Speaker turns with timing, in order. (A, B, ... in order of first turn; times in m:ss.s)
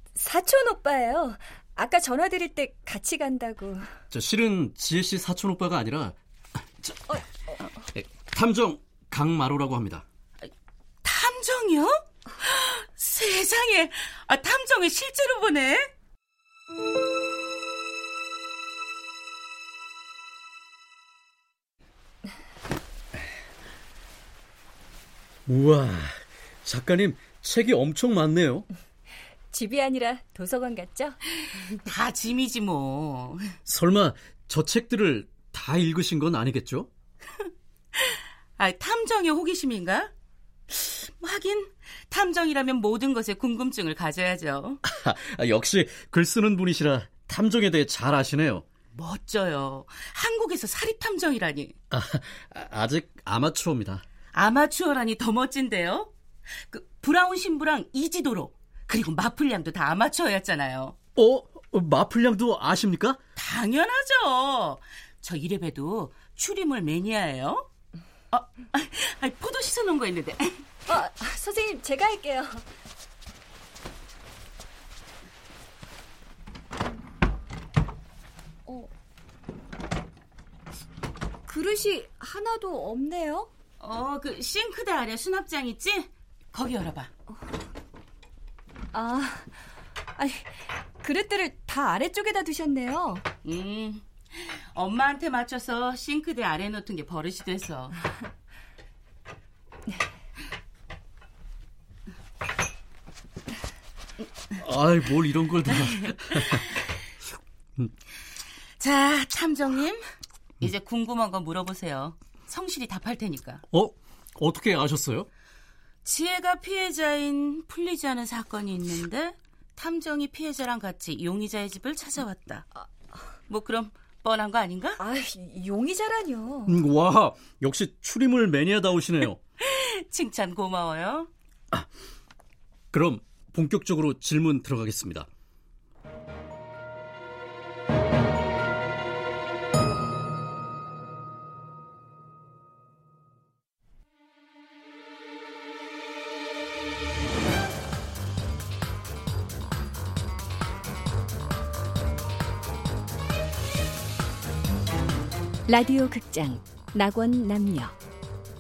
0:00.2-0:03.9 A
0:04.1-0:06.2 B
0:06.8-0:07.2 B
0:07.8-0:10.0 B
0:11.0-0:15.9 C
0:25.5-0:28.7 B
0:29.5-0:31.2 A
0:31.6-0:33.6 C
0:33.7-0:36.9 B
0:38.0-0:40.1 C
0:40.7-0:44.8 C
0:44.8-0:48.6 B
0:49.0-0:51.7 C
0:51.9-0:54.0 B
0:54.3-0:56.1 C
0:56.7-1:01.0 C
1:01.2-1:03.2 B
1:03.4-1:07.7 C
1:08.3-1:10.6 C
1:10.9-1:12.6 A
1:21.5-1:23.5 A
1:23.8-1:27.1 C
1:28.9-1:29.6 A
1:30.2-1:33.2 A
1:33.4-1:38.0 C
1:44.6-1:46.8 B
1:48.8-1:50.1 C
1:50.6-1:53.6 C
1:53.7-1:55.3 B
1:56.0-2:02.8 C
2:03.5-2:05.0 C
2:05.0-2:06.8 A
2:06.7-2:09.4 B
2:09.6-2:11.3 C
2:12.9-2:15.3 B
2:35.7-2:38.0 A